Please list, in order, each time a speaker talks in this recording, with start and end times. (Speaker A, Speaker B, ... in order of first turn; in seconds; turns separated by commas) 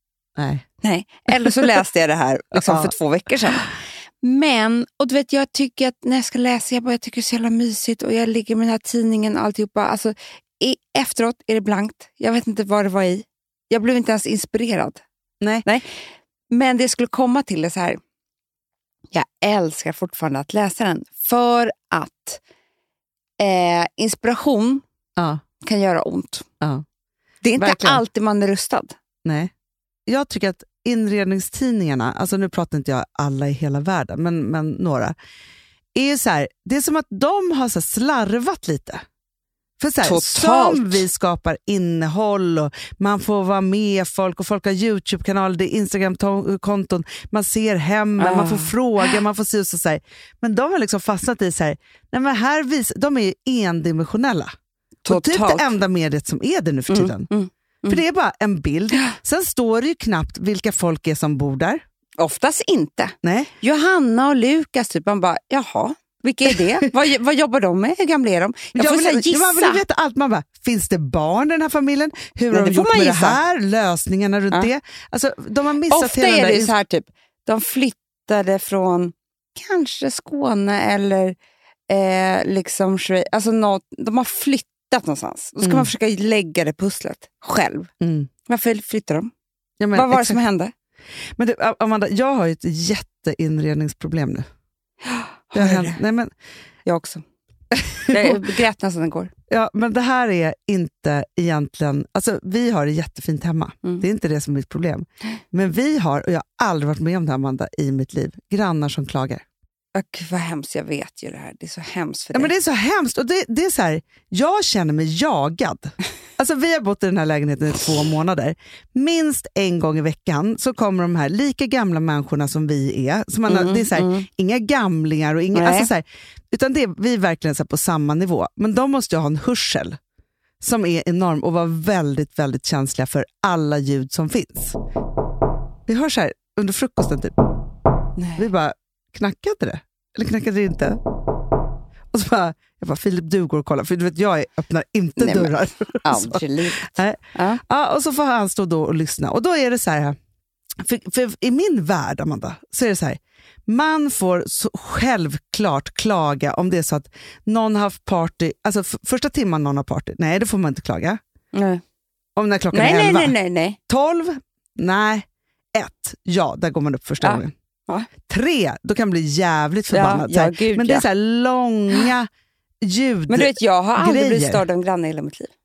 Speaker A: 0.4-0.6, Speaker B: 0.8-15.0, Speaker A: 2.5-2.9, Speaker A: 15.4-15.7, Speaker B: 15.7-15.9, Speaker B: 16.5-18.0, Speaker B: 19.1-22.4, Speaker B: 23.4-24.8, Speaker A: 25.2-25.4, Speaker B: 25.6-26.4, Speaker B: 27.4-28.9, Speaker A: 27.6-28.0, Speaker A: 29.2-29.5, Speaker A: 30.1-35.1, Speaker A: 35.9-39.0, Speaker A: 39.8-54.5, Speaker B: 40.0-41.0, Speaker B: 48.2-49.2, Speaker B: 55.0-55.7, Speaker A: 55.0-57.3, Speaker B: 56.9-58.0, Speaker A: 57.9-61.8, Speaker B: 62.2-69.8, Speaker A: 63.2-63.5, Speaker A: 68.8-76.7, Speaker B: 72.5-73.4, Speaker B: 75.9-81.3, Speaker B: 81.9-87.9, Speaker A: 85.6-85.9, Speaker A: 88.0-88.3, Speaker B: 88.5-89.3, Speaker A: 89.8-90.4, Speaker B: 89.9-90.7, Speaker A: 91.4-94.4, Speaker B: 95.0-96.0, Speaker A: 95.5-96.3, Speaker B: 96.8-97.2, Speaker A: 97.7-98.4, Speaker B: 98.1-99.3, Speaker A: 99.5-109.4, Speaker B: 109.9-112.5, Speaker A: 112.3-129.9, Speaker B: 123.5-124.3, Speaker B: 125.5-125.9, Speaker A: 130.6-134.8, Speaker A: 135.9-137.3, Speaker B: 138.2-138.4, Speaker A: 138.4-141.0, Speaker A: 142.1-150.1, Speaker B: 145.2-145.5, Speaker B: 146.0-147.6, Speaker A: 150.8-161.2, Speaker B: 161.5-161.8, Speaker A: 162.3-163.3, Speaker B: 162.7-163.8, Speaker A: 163.9-167.5, Speaker B: 167.2-168.1, Speaker A: 168.3-172.3, Speaker B: 169.9-171.0, Speaker A: 172.8-174.6, Speaker B: 173.3-175.5